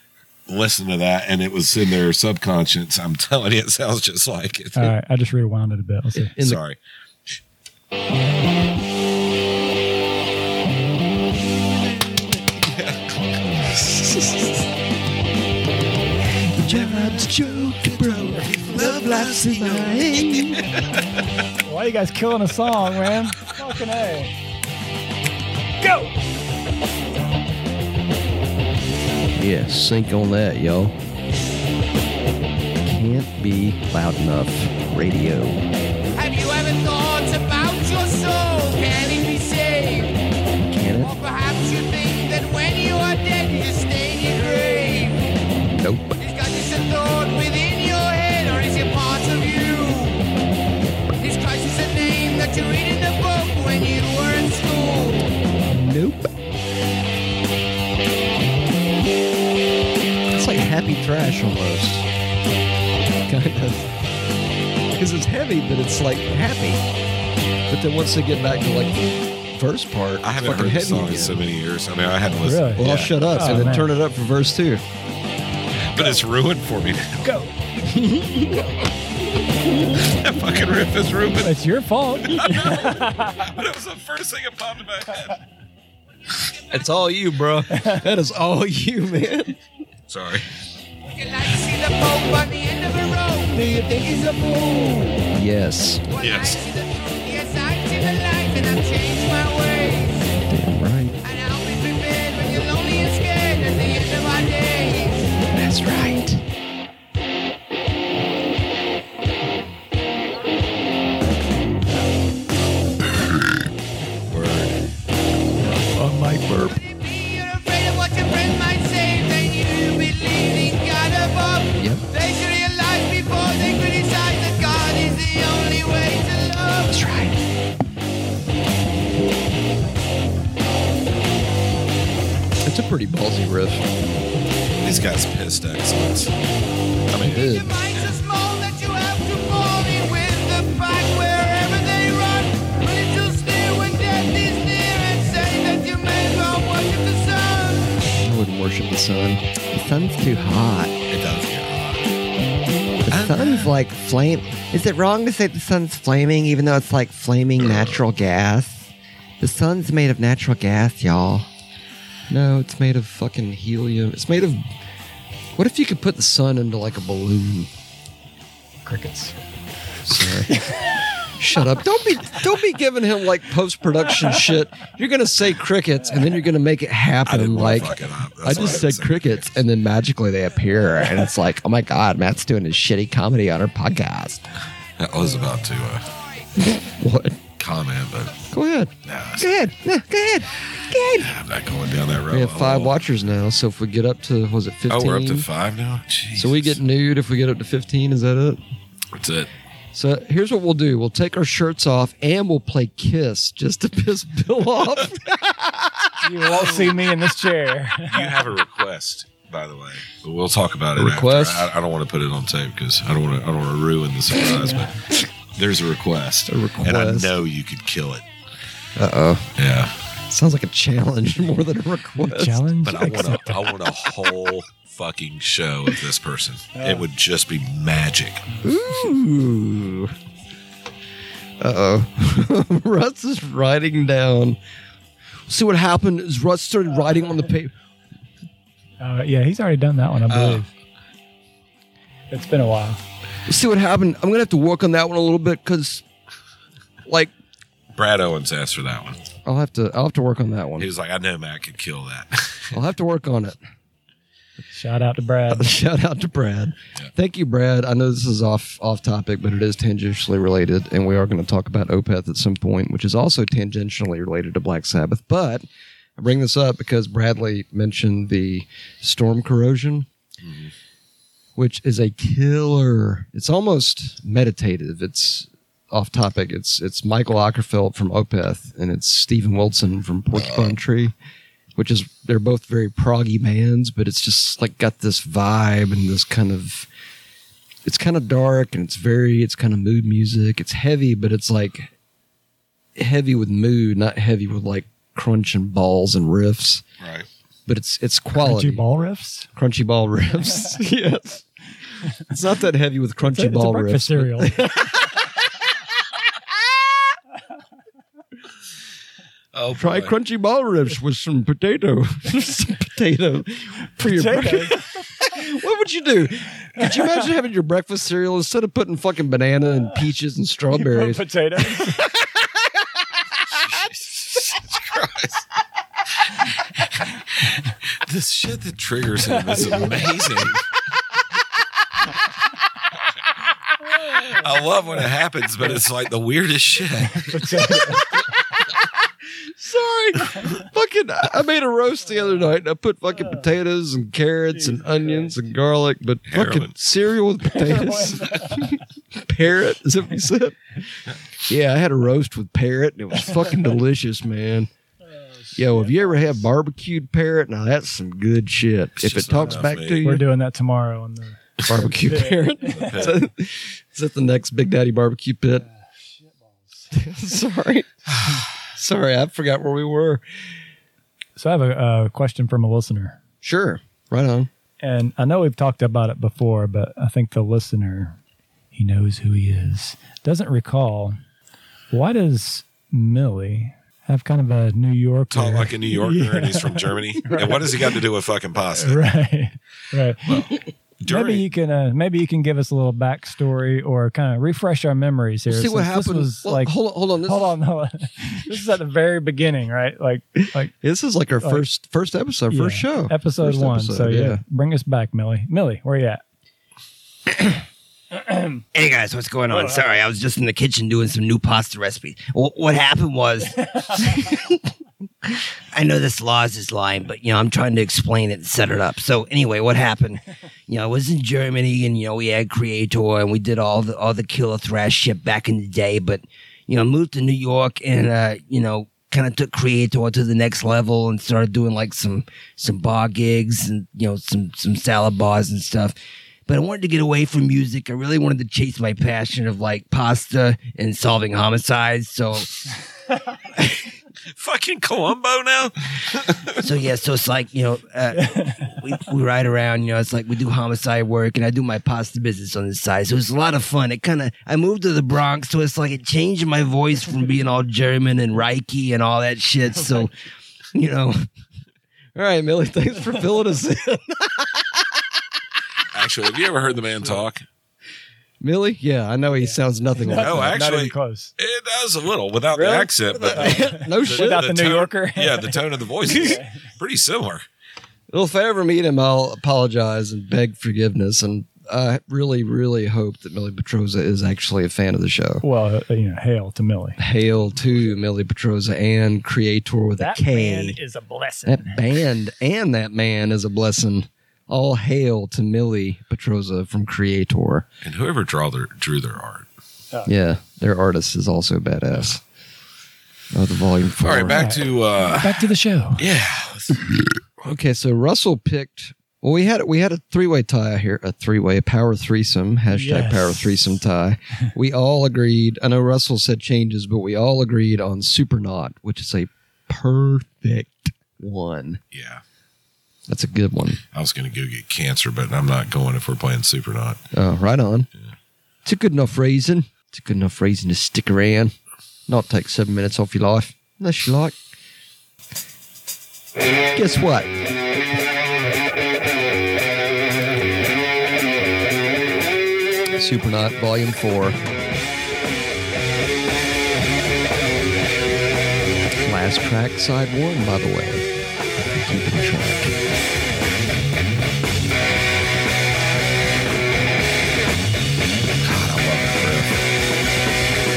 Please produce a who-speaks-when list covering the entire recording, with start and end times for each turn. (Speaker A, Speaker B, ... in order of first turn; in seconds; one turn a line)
Speaker A: 0.5-4.9
Speaker B: 4.7-6.3
Speaker C: 6.1-6.6
Speaker A: 6.4-7.4
Speaker A: 11.8-14.5
Speaker C: 16.4-20.6
Speaker A: 16.6-21.2
Speaker B: 21.6-24.3
Speaker A: 22.9-23.7
Speaker B: 25.8-26.1
Speaker C: 29.4-30.9
Speaker C: 32.9-35.6
Speaker D: 36.1-40.2
Speaker C: 40.7-41.1
Speaker D: 41.0-45.4
Speaker C: 45.7-46.2
Speaker D: 46.2-50.3
Speaker D: 51.2-55.3
Speaker C: 55.7-56.3
Speaker C: 60.3-62.1
Speaker C: 63.3-63.9
Speaker C: 64.9-66.8
Speaker C: 67.7-71.4
Speaker A: 70.2-73.2
Speaker B: 72.4-73.9
Speaker C: 72.8-74.8
Speaker A: 75.8-77.4
Speaker B: 77.2-77.5
Speaker C: 77.8-78.7
Speaker A: 79.9-81.6
Speaker B: 81.4-83.5
Speaker A: 82.2-85.4
Speaker C: 86.7-89.5
Speaker B: 87.7-88.0
Speaker A: 90.1-90.5
Speaker D: 91.1-95.2
Speaker B: 93.7-94.5
Speaker C: 95.3-96.1
Speaker D: 96.1-100.3
Speaker A: 96.2-96.6
Speaker C: 100.5-101.2
Speaker D: 101.2-105.3
Speaker C: 105.5-106.4
Speaker A: 114.3-114.8
Speaker C: 115.9-116.8
Speaker D: 116.7-127.0
Speaker C: 121.8-122.0
Speaker C: 126.9-127.4
Speaker C: 132.6-133.8
Speaker A: 134.8-136.3
Speaker A: 137.1-138.1
Speaker C: 137.2-137.8
Speaker D: 137.4-148.1
Speaker C: 148.2-150.9
Speaker A: 151.1-152.1
Speaker C: 153.1-161.5
Speaker A: 153.1-153.8
Speaker A: 157.6-158.0
Speaker C: 162.3-164.6
Speaker C: 165.6-167.7
Speaker B: 168.8-169.3
Speaker C: 170.0-170.7
Speaker B: 170.5-170.8
Speaker C: 171.3-184.4
Speaker A: 177.2-179.6
Speaker A: 185.0-186.1
Speaker C: 186.6-187.4
Speaker A: 187.6-188.5
Speaker C: 188.5-191.3
Speaker A: 189.0-189.5
Speaker A: 191.0-193.2
Speaker C: 192.3-195.5
Speaker A: 194.9-196.8
Speaker C: 196.3-198.6
Speaker A: 199.1-199.5
Speaker C: 199.9-206.2
Speaker B: 206.2-208.5
Speaker A: 206.5-206.9
Speaker A: 208.1-214.9
Speaker C: 210.9-211.7
Speaker B: 214.5-214.9
Speaker A: 215.5-218.2
Speaker C: 216.5-217.4
Speaker C: 218.9-219.5
Speaker A: 219.6-219.9
Speaker C: 220.3-222.6
Speaker B: 222.2-223.7
Speaker A: 222.8-228.5
Speaker B: 226.7-227.0
Speaker C: 228.6-230.1
Speaker C: 231.6-234.6
Speaker C: 235.5-237.7
Speaker B: 239.0-240.7
Speaker A: 240.3-240.6
Speaker B: 242.3-243.0
Speaker C: 243.5-246.0
Speaker C: 247.1-247.3
Speaker A: 247.9-249.2
Speaker C: 249.4-250.9
Speaker A: 250.8-252.8
Speaker C: 252.7-253.6
Speaker B: 254.7-255.7
Speaker C: 255.5-265.6
Speaker C: 266.2-270.1
Speaker A: 270.4-270.7
Speaker C: 271.6-281.1
Speaker A: 280.3-280.8
Speaker C: 281.8-286.9
Speaker C: 287.8-291.9
Speaker C: 293.0-296.8
Speaker A: 297.0-297.3
Speaker C: 297.7-298.8
Speaker B: 298.4-299.5
Speaker C: 299.5-301.4
Speaker C: 302.1-305.4
Speaker B: 303.2-304.6
Speaker A: 309.5-310.1
Speaker C: 309.7-322.7
Speaker B: 314.0-314.9
Speaker B: 320.7-322.1
Speaker A: 323.5-325.4
Speaker A: 327.4-330.6
Speaker B: 329.5-329.7
Speaker A: 334.1-337.5
Speaker B: 337.1-338.1
Speaker C: 339.6-354.7
Speaker B: 344.6-345.3
Speaker A: 346.3-346.7
Speaker B: 347.5-348.8
Speaker C: 355.5-360.2
Speaker B: 355.5-356.3
Speaker A: 359.0-360.1
Speaker B: 359.4-363.1
Speaker C: 361.6-365.6
Speaker A: 362.6-363.2
Speaker C: 366.9-367.9
Speaker A: 368.1-368.4
Speaker C: 368.6-370.2
Speaker B: 371.4-373.2
Speaker C: 373.4-374.5
Speaker B: 374.8-378.2
Speaker B: 378.7-381.2
Speaker B: 381.9-387.9
Speaker A: 385.3-389.0
Speaker B: 388.7-390.5
Speaker A: 390.2-391.5
Speaker B: 391.1-400.7
Speaker C: 395.5-397.6
Speaker C: 400.4-404.4
Speaker B: 402.5-406.2
Speaker B: 408.1-408.6
Speaker E: 408.7-414.6
Speaker B: 409.5-409.9
Speaker E: 415.3-435.9
Speaker E: 436.5-442.5
Speaker E: 443.5-443.9
Speaker A: 444.3-446.6
Speaker E: 446.6-460.1
Speaker B: 448.2-448.6
Speaker E: 460.7-461.2
Speaker C: 462.1-464.7
Speaker A: 465.9-467.4
Speaker C: 468.4-470.6
Speaker B: 469.4-471.3
Speaker A: 470.0-477.4
Speaker B: 472.5-476.6
Speaker C: 473.1-474.4
Speaker C: 478.1-485.4
Speaker B: 485.4-487.0
Speaker C: 487.0-490.8
Speaker B: 490.0-492.0
Speaker C: 491.4-497.7
Speaker A: 497.8-499.5
Speaker C: 500.0-502.2
Speaker C: 503.3-504.5
Speaker A: 504.0-506.9
Speaker B: 504.3-506.0
Speaker C: 507.4-521.8
Speaker B: 512.7-513.6
Speaker A: 521.9-522.2
Speaker C: 523.1-523.8
Speaker A: 523.9-527.0
Speaker C: 527.1-527.9
Speaker C: 528.6-531.5
Speaker C: 532.1-534.3
Speaker C: 536.7-537.3
Speaker C: 543.0-544.4
Speaker C: 549.0-551.1
Speaker C: 551.7-552.8
Speaker A: 558.4-559.6